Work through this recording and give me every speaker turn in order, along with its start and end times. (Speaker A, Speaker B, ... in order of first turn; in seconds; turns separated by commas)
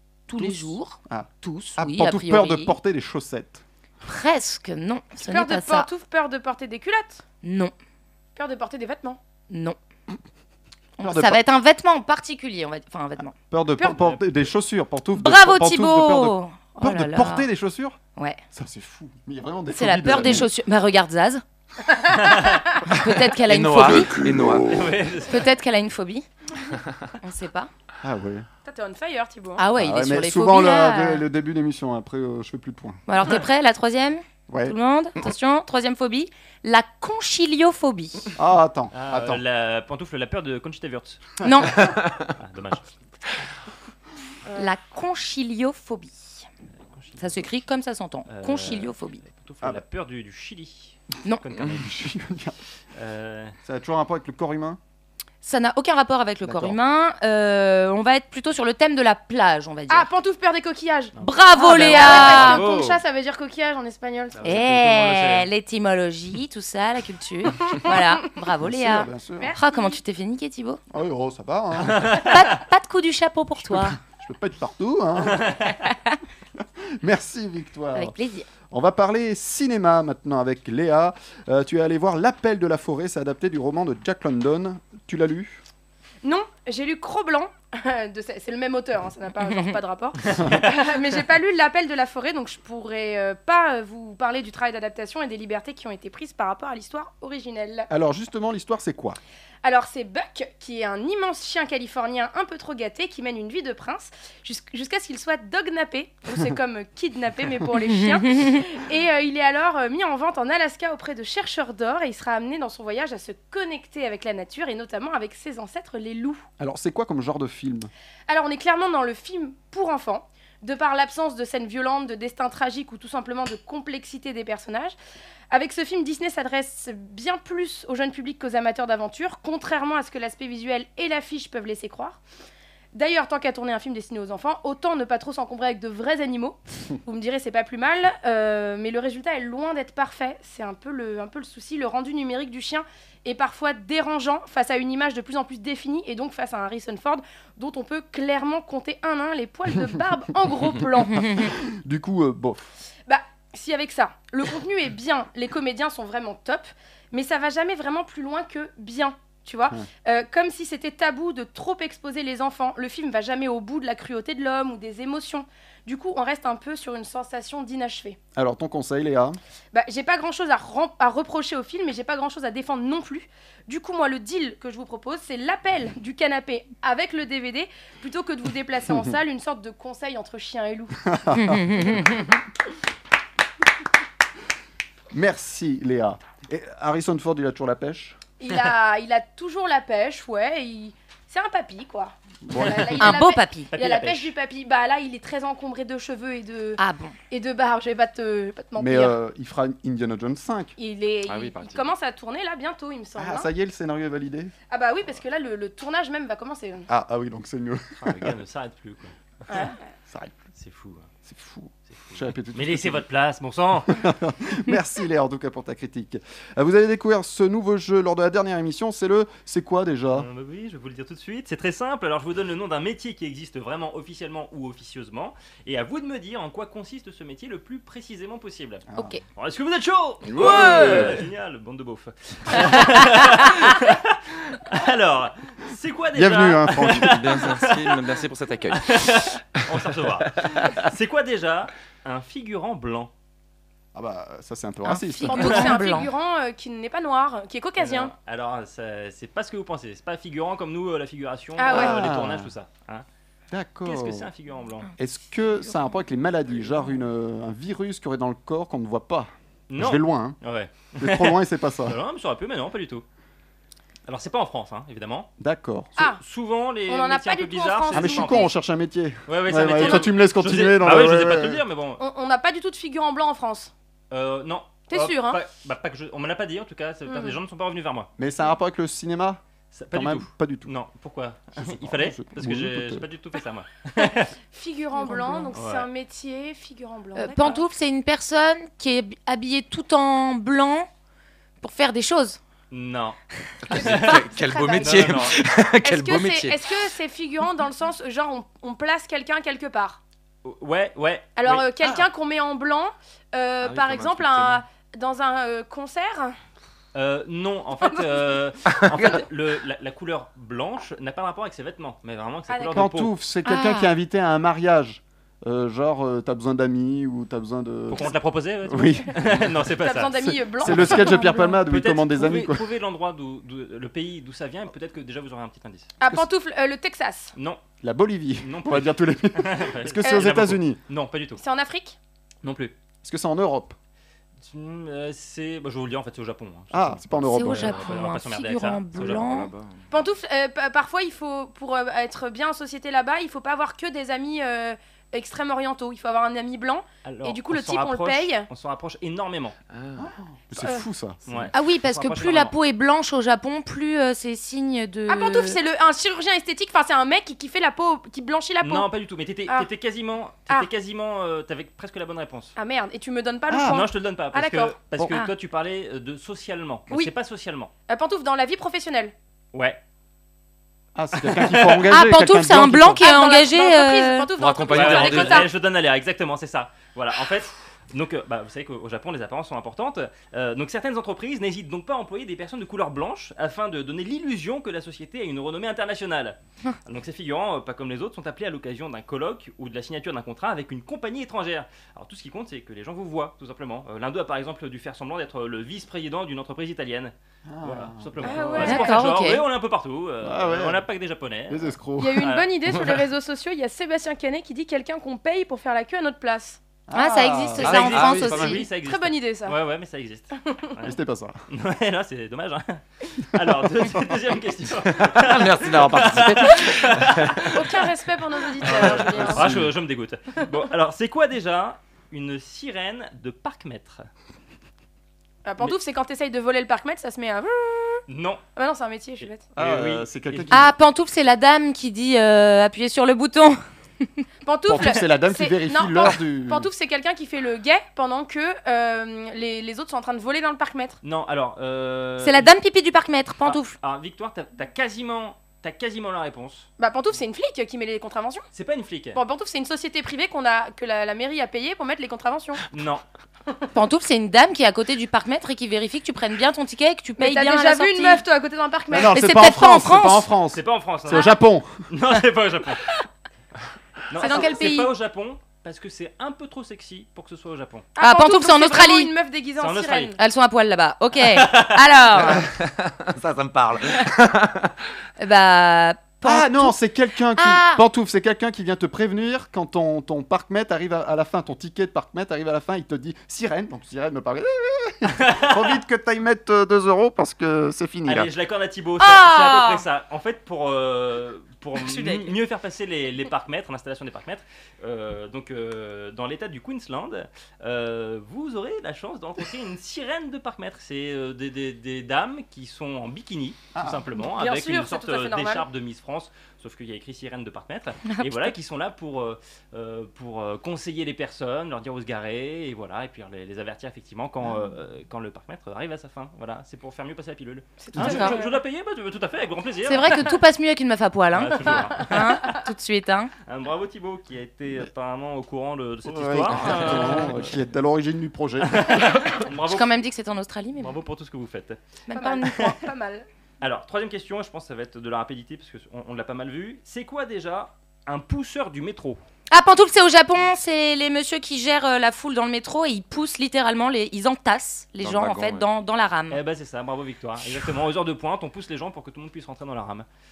Speaker A: 0.3-2.8, Speaker B: 0.4-3.6, Speaker A: 4.0-5.9, Speaker C: 5.2-7.2, Speaker A: 7.4-7.7, Speaker C: 8.3-9.2, Speaker A: 9.5-9.8, Speaker A: 11.0-13.3, Speaker B: 11.0-11.4, Speaker B: 13.5-18.0, Speaker C: 13.8-14.1, Speaker A: 15.1-17.5, Speaker A: 18.1-18.4, Speaker B: 18.5-20.5, Speaker A: 19.7-21.4, Speaker A: 22.9-24.2, Speaker D: 23.1-24.8, Speaker E: 24.7-25.5, Speaker A: 25.2-26.2, Speaker A: 27.2-27.7, Speaker B: 28.0-28.4, Speaker C: 28.6-29.6, Speaker A: 29.6-31.2, Speaker B: 29.8-33.0, Speaker A: 33.1-38.3, Speaker B: 34.5-34.7, Speaker B: 38.4-39.4, Speaker E: 38.9-41.3, Speaker A: 41.4-41.9, Speaker D: 41.8-42.3, Speaker E: 42.4-43.0, Speaker A: 44.5-46.5, Speaker E: 46.9-47.4, Speaker A: 47.2-49.2, Speaker E: 48.3-52.0, Speaker B: 51.8-52.5, Speaker E: 53.0-53.5, Speaker B: 53.6-54.8, Speaker A: 55.4-60.1, Speaker B: 56.4-56.8, Speaker C: 59.9-64.4, Speaker E: 61.2-62.3, Speaker A: 61.2-62.6, Speaker D: 61.7-63.0, Speaker E: 64.4-65.5, Speaker A: 64.4-70.8, Speaker C: 67.7-68.0, Speaker B: 68.6-69.5, Speaker C: 69.4-70.0, Speaker B: 70.9-72.2, Speaker E: 71.8-72.3, Speaker A: 72.1-74.0, Speaker B: 73.7-75.5, Speaker E: 75.3-75.7, Speaker B: 76.6-78.1, Speaker A: 77.9-78.5, Speaker B: 78.7-85.6, Speaker C: 86.2-97.9, Speaker A: 89.5-89.8, Speaker B: 97.9-99.2, Speaker C: 99.6-116.5, Speaker A: 107.8-108.6, Speaker B: 116.6-117.9, Speaker C: 118.3-125.0, Speaker C: 125.5-132.2, Speaker C: 132.9-151.3, Speaker A: 151.2-151.5, Speaker B: 151.3-152.7, Speaker C: 153.1-168.2, Speaker B: 168.3-169.4, Speaker C: 169.7-181.0, Speaker B: 181.1-182.1, Speaker A: 181.3-182.2, Speaker B: 185.1-188.2, Speaker C: 188.4-196.8, Speaker B: 192.5-193.0, Speaker A: 193.0-193.7, Speaker E: 193.7-194.3, Speaker A: 196.8-197.1, Speaker C: 197.3-199.2, Speaker B: 198.8-200.7, Speaker C: 200.8-203.5, Speaker D: 201.2-201.9, Speaker B: 203.2-204.5, Speaker C: 204.7-206.9, Speaker B: 206.9-208.4, Speaker E: 208.0-209.1, Speaker C: 209.5-209.8, Speaker B: 210.1-210.3, Speaker E: 210.6-211.1, Speaker B: 211.2-213.0, Speaker E: 211.9-214.0, Speaker B: 213.9-220.3, Speaker E: 220.1-238.1, Speaker D: 230.3-231.1, Speaker B: 230.4-231.1, Speaker B: 236.1-237.4, Speaker D: 236.9-239.7, Speaker E: 238.7-243.1, Speaker B: 243.9-245.7, Speaker A: 244.8-246.1, Speaker C: 245.2-248.1, Speaker E: 247.8-253.1, Speaker C: 251.6-252.0, Speaker B: 251.7-252.5, Speaker B: 253.5-254.3, Speaker E: 253.8-254.9, Speaker B: 255.0-260.4, Speaker E: 259.7-263.0, Speaker B: 261.0-262.0, Speaker E: 264.1-265.3, Speaker B: 265.4-266.0, Speaker E: 266.2-268.5, Speaker C: 266.9-268.5, Speaker B: 267.9-271.6, Speaker E: 269.3-272.0, Speaker C: 269.8-270.1, Speaker C: 272.0-273.7, Speaker E: 274.1-278.1, Speaker C: 274.9-275.4, Speaker C: 277.1-277.4, Speaker B: 278.2-279.4, Speaker E: 279.7-284.3, Speaker B: 279.9-280.7, Speaker B: 281.6-283.0, Speaker C: 284.5-287.6, Speaker A: 285.0-285.5, Speaker E: 285.5-285.9, Speaker A: 287.1-290.9, Speaker A: 291.6-292.4, Speaker E: 292.7-293.2, Speaker D: 293.6-296.6, Speaker E: 293.7-295.4, Speaker C: 293.7-300.0, Speaker E: 300.4-301.7, Speaker C: 301.4-306.4, Speaker D: 303.6-304.6, Speaker E: 306.9-313.1, Speaker C: 307.8-308.2, Speaker D: 308.7-309.2, Speaker C: 312.5-312.9, Speaker B: 312.7-318.1, Speaker A: 313.4-313.9, Speaker E: 317.9-325.9, Speaker B: 318.6-319.4, Speaker C: 319.8-321.6, Speaker B: 320.2-322.7, Speaker C: 326.0-327.3, Speaker E: 327.4-327.6, Speaker B: 327.8-330.8, Speaker E: 328.4-331.4, Speaker C: 330.0-330.5, Speaker C: 331.4-332.0, Speaker E: 332.4-332.7, Speaker B: 333.0-333.8, Speaker E: 334.4-339.2, Speaker B: 336.7-337.9, Speaker A: 337.2-339.5, Speaker D: 338.9-339.8, Speaker C: 339.9-348.5, Speaker E: 347.0-349.6, Speaker D: 349.7-350.1, Speaker B: 350.0-351.5, Speaker C: 350.6-350.9, Speaker E: 351.3-352.5, Speaker A: 351.5-355.6, Speaker C: 355.1-358.9, Speaker E: 358.6-362.5, Speaker C: 362.6-364.8, Speaker B: 363.5-363.8, Speaker E: 363.6-367.7, Speaker C: 367.9-369.1, Speaker E: 369.5-369.8, Speaker B: 370.9-373.0, Speaker E: 371.1-371.9, Speaker A: 371.9-374.3, Speaker C: 373.0-375.5, Speaker D: 374.3-375.5, Speaker E: 374.7-402.6, Speaker B: 397.5-398.8, Speaker C: 398.2-398.9, Speaker A: 398.6-399.4, Speaker B: 400.2-400.9, Speaker B: 401.5-402.3, Speaker C: 402.0-406.6, Speaker B: 406.9-407.8, Speaker A: 406.9-408.6, Speaker E: 407.6-411.0, Speaker D: 407.6-408.6, Speaker C: 408.7-409.6, Speaker B: 410.8-411.4, Speaker E: 411.5-417.6, Speaker D: 414.9-417.7, Speaker C: 417.5-419.5, Speaker E: 418.6-424.0, Speaker B: 418.6-419.6, Speaker D: 419.1-419.6, Speaker C: 425.4-428.0, Speaker E: 428.1-428.4, Speaker C: 428.6-429.4, Speaker E: 429.2-430.6, Speaker B: 429.5-430.7, Speaker A: 430.5-433.6, Speaker C: 434.4-441.0, Speaker B: 434.7-436.7, Speaker E: 441.0-442.5, Speaker A: 442.2-443.7, Speaker E: 443.4-446.7, Speaker C: 446.8-448.5, Speaker E: 448.5-449.2, Speaker C: 449.1-452.6, Speaker E: 452.7-453.0, Speaker A: 453.7-458.2, Speaker C: 457.2-459.2, Speaker B: 458.9-461.7, Speaker A: 459.1-460.3, Speaker E: 460.5-462.9, Speaker E: 464.1-467.9, Speaker C: 464.2-464.9, Speaker C: 467.9-470.2, Speaker A: 468.0-469.1, Speaker E: 469.6-470.1, Speaker A: 470.2-472.4, Speaker E: 471.3-471.8, Speaker D: 472.2-474.8, Speaker A: 475.2-476.8, Speaker B: 476.2-488.3, Speaker A: 477.3-477.8, Speaker E: 485.2-485.8, Speaker E: 488.1-520.3, Speaker A: 489.0-489.8, Speaker A: 491.8-492.3, Speaker B: 503.7-504.1, Speaker C: 504.3-505.6, Speaker A: 508.1-508.5, Speaker C: 517.8-518.6, Speaker A: 518.0-518.4, Speaker A: 519.9-523.3, Speaker E: 521.3-522.4, Speaker C: 522.1-522.4, Speaker E: 523.5-527.5, Speaker B: 526.0-529.2, Speaker E: 528.6-529.9, Speaker A: 529.7-531.0, Speaker E: 530.8-531.8, Speaker A: 532.1-532.7, Speaker C: 532.1-533.3, Speaker E: 533.6-539.2, Speaker A: 539.5-546.4, Speaker D: 545.0-545.6, Speaker E: 546.3-550.1